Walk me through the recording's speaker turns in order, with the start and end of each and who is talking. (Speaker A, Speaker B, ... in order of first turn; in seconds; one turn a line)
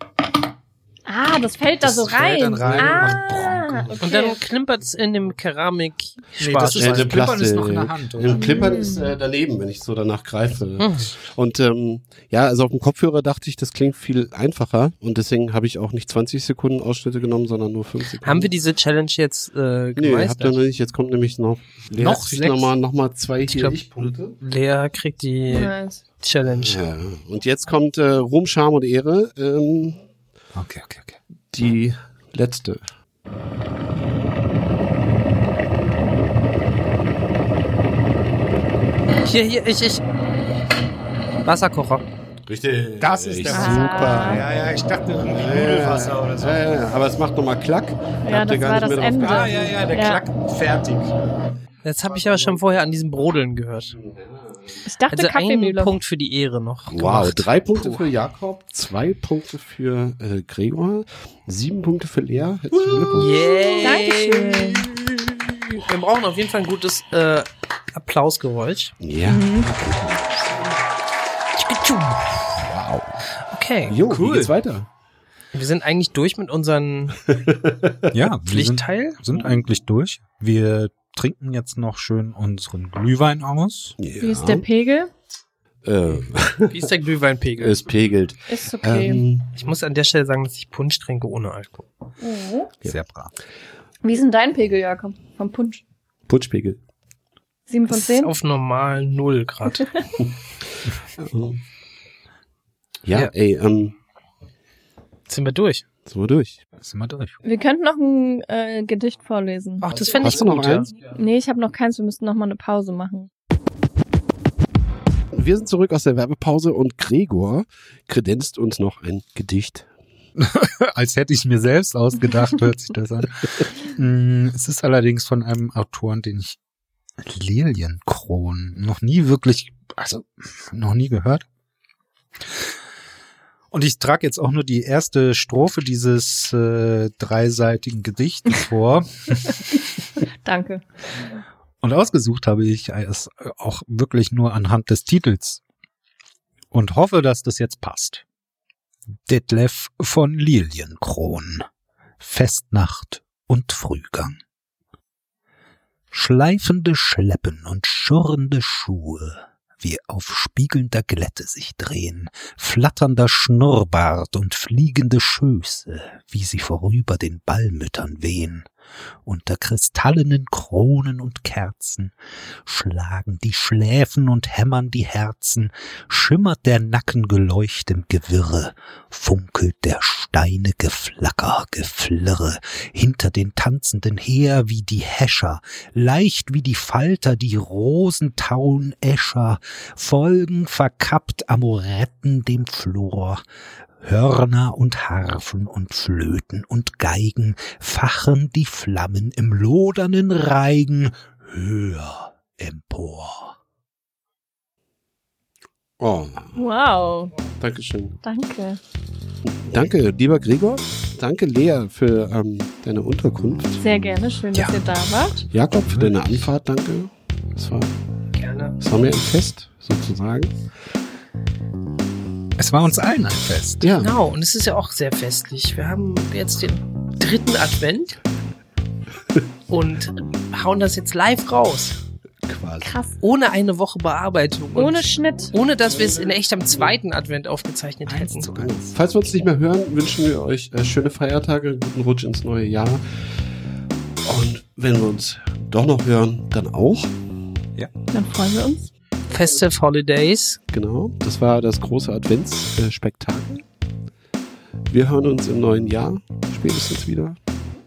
Speaker A: 1.1-4.4
Speaker B: 1.8-4.0
Speaker C: 2.6-3.3
Speaker D: 4.0-7.2
Speaker B: 6.4-8.6
Speaker C: 6.7-18.5
Speaker A: 8.3-9.1
Speaker D: 10.8-11.1
Speaker D: 18.2-20.6
Speaker C: 19.9-24.4
Speaker B: 22.0-22.7
Speaker D: 23.4-26.8
Speaker A: 25.5-26.0
Speaker C: 26.5-30.0
Speaker B: 30.5-31.2
Speaker C: 31.5-32.8
Speaker D: 39.2-40.0
Speaker D: 41.4-42.0
Speaker C: 42.5-44.5
Speaker B: 43.0-46.6
Speaker A: 43.5-44.4
Speaker C: 45.2-49.7
Speaker A: 48.2-50.2
Speaker B: 49.2-51.1
Speaker D: 51.8-54.0
Speaker C: 52.3-52.5
Speaker C: 54.0-54.8
Speaker A: 54.8-55.9
Speaker D: 55.1-58.0
Speaker C: 56.9-63.9
Speaker B: 63.0-63.3
Speaker D: 63.1-64.9
Speaker A: 63.8-64.9
Speaker D: 65.8-68.9
Speaker C: 69.0-70.4
Speaker A: 69.2-69.7
Speaker D: 71.5-72.4
Speaker C: 72.6-73.2
Speaker D: 73.4-74.0
Speaker C: 73.8-74.9
Speaker B: 74.0-74.5
Speaker D: 75.5-77.2
Speaker C: 77.2-78.1
Speaker B: 78.1-84.0
Speaker D: 78.5-79.2
Speaker C: 84.0-84.7
Speaker A: 84.2-85.1
Speaker C: 85.8-86.9
Speaker D: 86.7-87.8
Speaker C: 87.6-89.6
Speaker A: 88.5-89.2
Speaker D: 89.5-91.9
Speaker A: 92.2-92.7
Speaker B: 92.8-93.3
Speaker A: 94.0-95.8
Speaker C: 96.3-96.8
Speaker A: 97.7-98.3
Speaker D: 97.9-99.9
Speaker C: 101.2-101.6
Speaker C: 103.0-103.9
Speaker D: 105.3-105.8
Speaker C: 106.1-106.6
Speaker B: 106.8-107.4
Speaker A: 107.4-109.9
Speaker D: 109.8-110.9
Speaker C: 110.0-110.9
Speaker A: 111.0-113.3
Speaker C: 115.3-119.9
Speaker B: 120.4-126.6
Speaker B: 127.2-131.4
Speaker B: 133.7-139.5
Speaker A: 140.4-140.8
Speaker B: 141.8-145.6
Speaker B: 146.7-148.2
Speaker B: 149.2-151.7
Speaker B: 152.2-154.4
Speaker B: 156.1-168.7
Speaker B: 169.2-172.1
Speaker B: 172.6-193.4
Speaker B: 194.0-203.6
Speaker C: 206.0-206.6
Speaker A: 206.5-207.3
Speaker C: 207.6-208.2
Speaker A: 208.2-208.8
Speaker C: 209.6-213.8
Speaker A: 213.8-215.5
Speaker B: 214.5-214.8
Speaker C: 215.5-217.9
Speaker B: 215.8-216.2
Speaker D: 218.3-218.8
Speaker C: 218.8-220.5
Speaker B: 222.6-223.8
Speaker C: 223.8-224.1
Speaker D: 224.0-228.2
Speaker D: 229.7-232.0
Speaker C: 232.4-232.9
Speaker A: 232.8-233.1
Speaker D: 233.2-238.7
Speaker A: 234.7-235.5
Speaker C: 235.8-236.9
Speaker B: 238.1-238.9
Speaker C: 238.6-243.0
Speaker C: 244.2-247.1
Speaker A: 248.1-248.9
Speaker D: 249.3-250.6
Speaker C: 250.7-253.6
Speaker C: 254.9-257.4